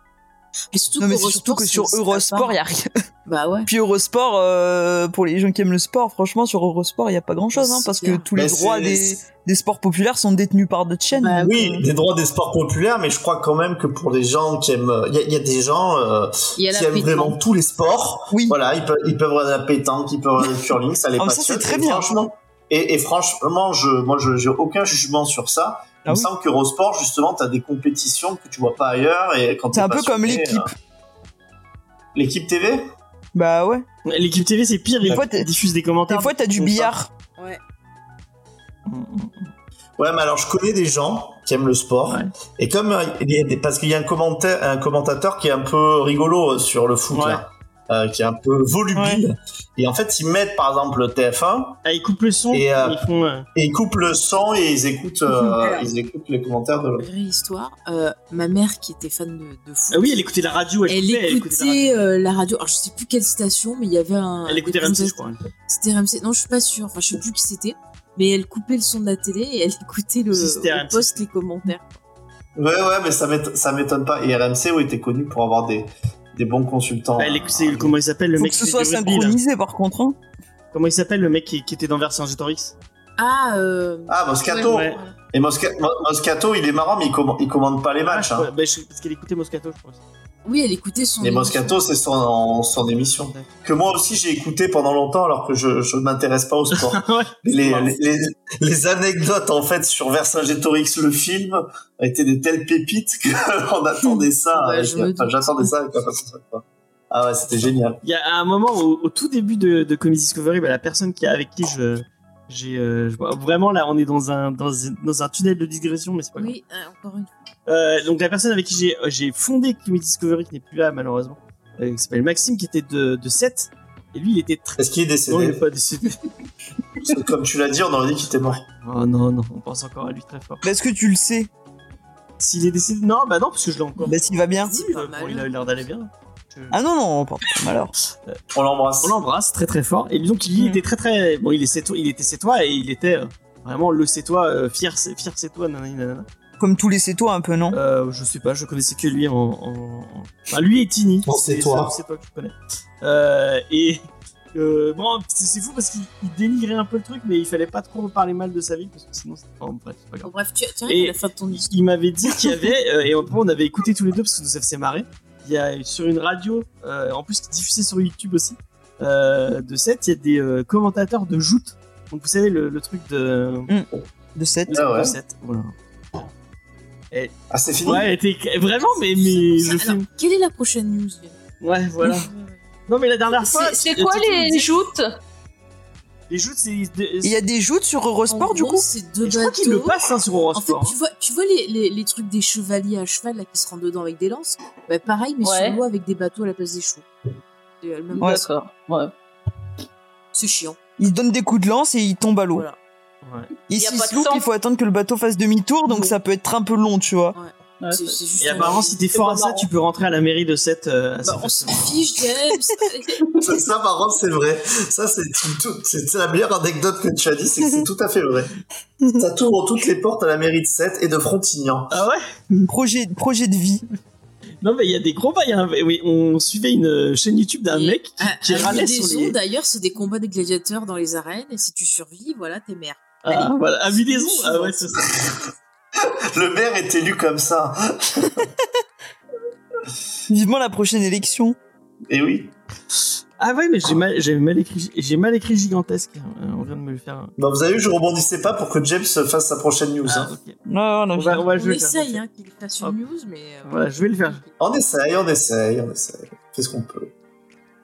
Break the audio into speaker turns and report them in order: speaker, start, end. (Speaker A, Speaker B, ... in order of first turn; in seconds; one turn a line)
Speaker A: 0.7-2.6
Speaker B: 1.0-2.9
Speaker A: 3.2-3.7
Speaker B: 3.6-11.5
Speaker A: 7.5-8.3
Speaker C: 8.3-9.2
Speaker A: 11.1-11.9
Speaker C: 11.4-30.7
Speaker A: 16.6-17.4
Speaker B: 18.3-18.6
Speaker B: 21.2-22.1
Speaker B: 29.7-30.7
Speaker C: 32.1-32.9
Speaker B: 33.3-33.8
Speaker D: 34.0-36.9
Speaker B: 35.0-35.5
Speaker B: 36.1-37.1
Speaker D: 38.9-39.5
Speaker C: 40.0-51.8
Speaker D: 47.1-47.4
Speaker B: 48.9-49.2
Speaker D: 51.8-53.5
Speaker C: 52.5-53.0
Speaker C: 53.5-57.1
Speaker A: 55.3-55.9
Speaker A: 57.0-60.3
Speaker D: 59.9-62.1
Speaker A: 60.9-72.0
Speaker D: 64.5-65.4
Speaker D: 70.3-71.2
Speaker C: 72.5-78.0
Speaker D: 77.2-79.4
Speaker B: 78.4-80.2
Speaker D: 80.7-82.7
Speaker A: 83.2-85.2
Speaker C: 84.1-88.5
Speaker D: 84.6-85.0
Speaker D: 88.0-90.0
Speaker A: 90.4-91.8
Speaker C: 91.2-108.0
Speaker D: 96.7-97.9
Speaker A: 104.5-105.7
Speaker D: 108.0-116.5
Speaker A: 116.3-117.3
Speaker D: 117.7-126.3
Speaker C: 124.8-125.6
Speaker C: 127.0-128.6
Speaker D: 128.7-130.7
Speaker B: 130.6-131.5
Speaker D: 132.4-136.8
Speaker B: 134.1-134.7
Speaker A: 134.6-135.9
Speaker B: 136.7-137.9
Speaker C: 138.5-139.2
Speaker D: 139.0-146.3
Speaker B: 146.6-147.8
Speaker D: 147.7-154.0
Speaker C: 151.2-152.0
Speaker D: 154.5-160.3
Speaker A: 160.2-161.7
Speaker D: 160.9-173.7
Speaker B: 173.7-174.8
Speaker D: 174.7-175.7
Speaker C: 174.7-175.2
Speaker C: 177.5-178.1
Speaker D: 177.8-180.1
Speaker A: 179.2-181.3
Speaker D: 181.6-182.3
Speaker A: 182.3-182.6
Speaker D: 182.9-184.7
Speaker E: 183.5-185.1
Speaker A: 184.5-184.8
Speaker D: 186.3-187.3
Speaker B: 187.2-188.8
Speaker A: 188.3-190.0
Speaker D: 189.2-191.0
Speaker A: 190.5-197.1
Speaker E: 195.4-195.8
Speaker A: 197.8-198.5
Speaker E: 198.1-199.1
Speaker A: 200.3-200.8
Speaker B: 201.0-202.7
Speaker D: 203.2-203.5
Speaker B: 203.7-207.4
Speaker E: 203.7-204.4
Speaker A: 205.8-206.2
Speaker A: 207.3-209.0
Speaker E: 207.8-209.6
Speaker D: 208.4-211.9
Speaker A: 211.2-213.2
Speaker C: 213.3-218.6
Speaker B: 217.6-217.9
Speaker C: 219.1-222.0
Speaker D: 221.9-222.7
Speaker B: 222.7-223.8
Speaker D: 224.6-229.3
Speaker A: 227.7-234.8
Speaker D: 233.2-235.2
Speaker C: 235.0-235.3
Speaker C: 236.3-238.5
Speaker B: 240.3-241.6
Speaker C: 242.1-242.5
Speaker D: 243.4-247.3
Speaker C: 247.4-250.3
Speaker D: 250.0-250.6
Speaker B: 250.7-251.4
Speaker D: 251.1-252.2
Speaker A: 251.5-254.5
Speaker D: 253.6-254.4
Speaker C: 254.6-257.1